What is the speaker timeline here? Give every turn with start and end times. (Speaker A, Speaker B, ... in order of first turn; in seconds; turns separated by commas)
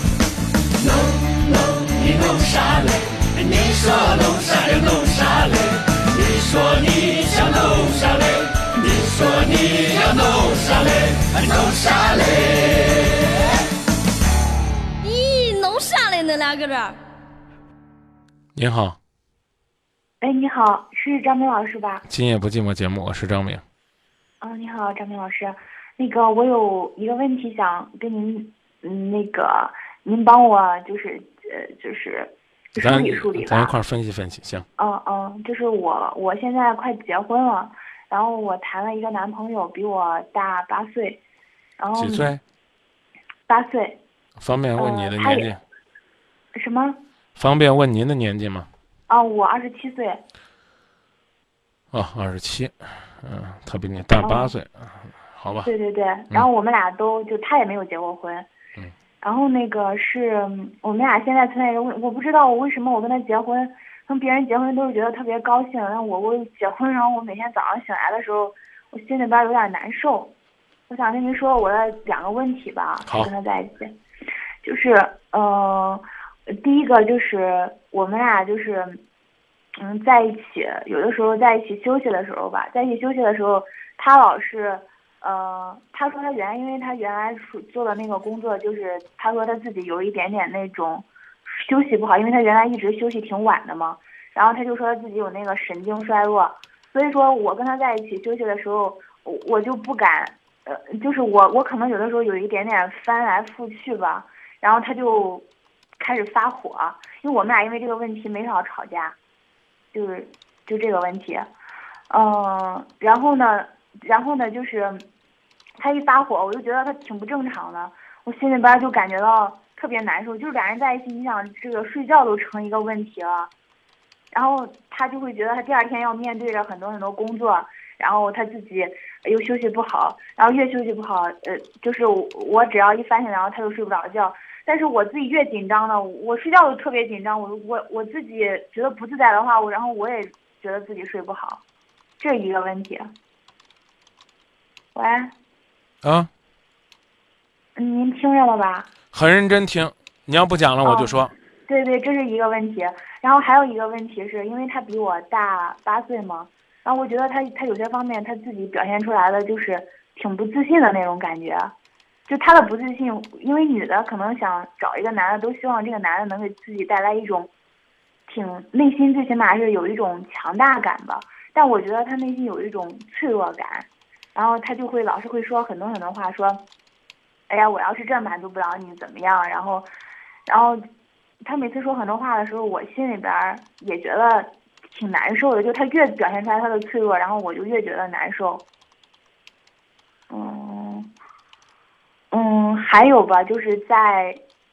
Speaker A: 2.0-5.5, Speaker A: 6.2-8.2, Speaker A: 8.8-12.4, Speaker B: 15.0-16.9, Speaker C: 18.5-19.0, Speaker D: 20.2-22.0, Speaker C: 22.1-23.6, Speaker D: 24.4-33.7, Speaker C: 32.8-34.6, Speaker D: 34.8-41.2, Speaker D: 41.8-42.4, Speaker C: 41.9-42.4, Speaker D: 43.5-44.0, Speaker C: 44.4-45.6, Speaker D: 44.7-45.6, Speaker D: 46.5-47.0, Speaker C: 47.4-48.7, Speaker D: 49.1-50.2, Speaker C: 51.9-55.7, Speaker D: 54.1-54.5, Speaker D: 55.6-58.5, Speaker D: 59.2-70.3, Speaker D: 70.9-73.9, Speaker C: 73.0-73.3, Speaker D: 74.6-79.0, Speaker D: 79.7-105.5, Speaker D: 106.0-109.2, Speaker D: 109.9-111.5, Speaker D: 112.1-115.0, Speaker D: 115.8-123.5, Speaker D: 124.3-141.6, Speaker D: 142.2-143.1, Speaker D: 144.9-145.3, Speaker C: 146.0-146.3, Speaker D: 147.8-148.9, Speaker C: 149.1-151.3, Speaker D: 150.8-161.7, Speaker D: 162.3-167.5, Speaker D: 168.3-176.6, Speaker D: 177.5-179.9, Speaker D: 180.5-180.8, Speaker D: 181.4-188.6, Speaker D: 190.3-191.1, Speaker D: 192.3-194.4